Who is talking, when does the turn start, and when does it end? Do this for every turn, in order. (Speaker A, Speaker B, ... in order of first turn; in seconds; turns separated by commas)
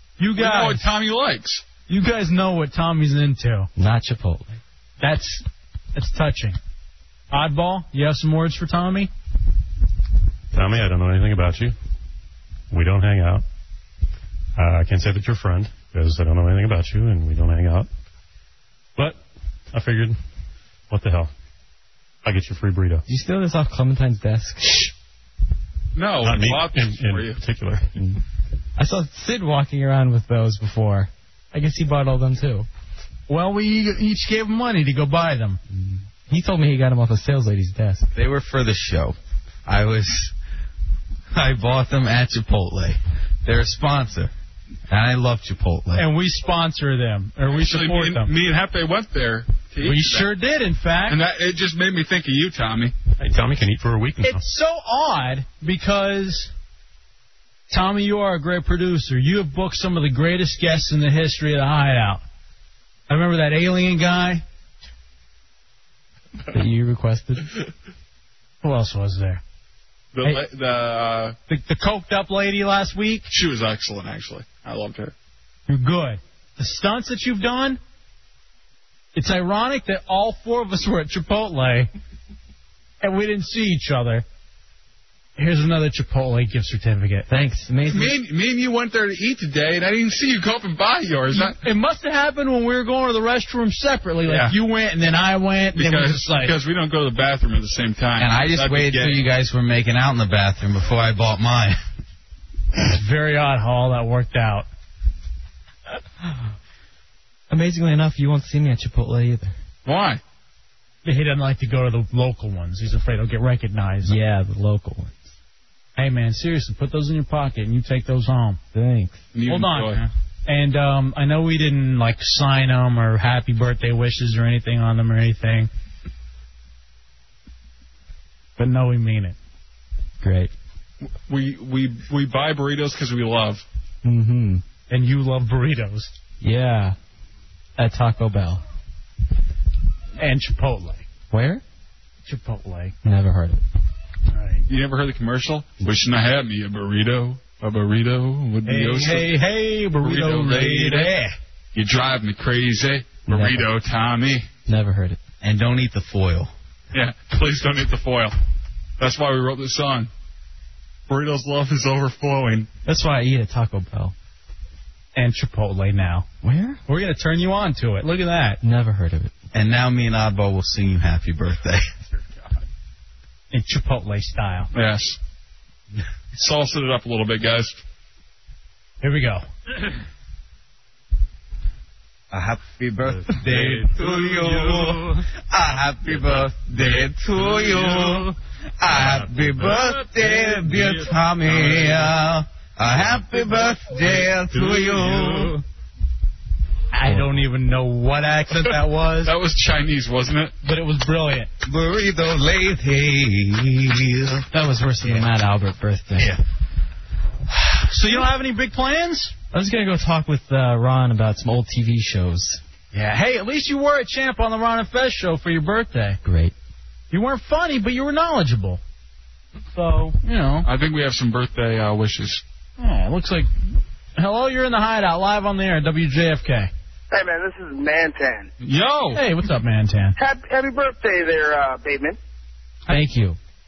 Speaker A: 0.2-0.9, Speaker B: 0.4-1.6, Speaker A: 1.9-3.7, Speaker C: 3.8-4.6, Speaker A: 5.0-6.6, Speaker A: 7.3-9.1, Speaker D: 10.5-11.7, Speaker D: 12.7-13.4, Speaker D: 14.6-17.9, Speaker D: 19.7-20.2, Speaker D: 20.9-21.3, Speaker D: 22.2-23.0, Speaker C: 23.1-24.9, Speaker B: 25.9-27.4, Speaker D: 26.2-27.9, Speaker C: 27.9-28.2, Speaker C: 28.8-32.7, Speaker A: 33.3-35.6, Speaker C: 35.7-38.1, Speaker E: 38.1-40.3, Speaker E: 41.3-44.3, Speaker E: 44.9-46.1, Speaker A: 46.0-48.3, Speaker B: 47.5-50.3, Speaker A: 49.8-51.2, Speaker B: 51.1-52.9, Speaker D: 53.2-54.4, Speaker A: 54.2-56.5, Speaker A: 57.7-62.2, Speaker A: 63.1-64.4, Speaker C: 66.5-67.5, Speaker A: 68.6-69.4, Speaker B: 70.1-71.3, Speaker A: 71.5-73.3, Speaker B: 73.3-75.1, Speaker A: 75.7-77.8, Speaker A: 79.1-81.9, Speaker A: 83.0-84.2, Speaker A: 85.4-87.3, Speaker C: 87.3-88.2, Speaker B: 87.9-91.6, Speaker A: 91.3-96.5, Speaker B: 94.2-94.5, Speaker B: 95.7-99.2, Speaker E: 98.2-101.8, Speaker A: 102.8-104.7, Speaker C: 107.5-109.5, Speaker B: 109.8-110.2, Speaker A: 111.0-114.2, Speaker C: 114.0-115.3, Speaker A: 116.0-118.6, Speaker C: 118.7-119.3, Speaker B: 119.3-120.0, Speaker A: 119.5-125.7, Speaker A: 128.6-129.3, Speaker C: 130.2-130.5, Speaker B: 131.2-133.6, Speaker C: 134.0-134.6, Speaker A: 134.9-136.1, Speaker C: 136.4-136.9, Speaker C: 137.8-138.6, Speaker A: 140.2-141.1, Speaker C: 141.3-141.6, Speaker A: 142.2-142.9, Speaker C: 143.0-143.6, Speaker A: 144.3-144.7, Speaker B: 144.7-149.3, Speaker A: 148.6-151.3, Speaker B: 150.0-151.1, Speaker B: 151.7-154.5, Speaker C: 153.3-153.7, Speaker C: 154.6-155.2, Speaker E: 155.4-156.5, Speaker B: 156.9-158.3, Speaker B: 159.0-160.1, Speaker B: 161.1-162.7, Speaker C: 162.8-164.1, Speaker A: 165.1-166.3, Speaker C: 166.4-166.8, Speaker A: 166.8-168.6, Speaker C: 168.6-169.3, Speaker E: 169.5-171.9, Speaker A: 173.5-174.7, Speaker B: 174.7-175.2, Speaker B: 176.3-177.8, Speaker A: 179.0-179.4, Speaker E: 182.3-195.6, Speaker B: 191.5-191.8, Speaker B: 194.5-195.2, Speaker A: 196.9-199.3, Speaker B: 199.2-200.5, Speaker A: 200.6-201.5, Speaker E: 201.6-204.5, Speaker C: 204.5-206.3, Speaker A: 207.9-209.3, Speaker C: 209.5-212.6, Speaker A: 212.9-216.2, Speaker C: 216.2-216.5, Speaker A: 217.1-218.8, Speaker A: 219.8-220.7, Speaker B: 220.6-222.4, Speaker A: 222.8-223.5, Speaker A: 224.2-226.7, Speaker F: 227.1-228.5, Speaker B: 228.6-229.2, Speaker A: 229.1-230.2, Speaker F: 230.2-232.2, Speaker C: 232.9-233.4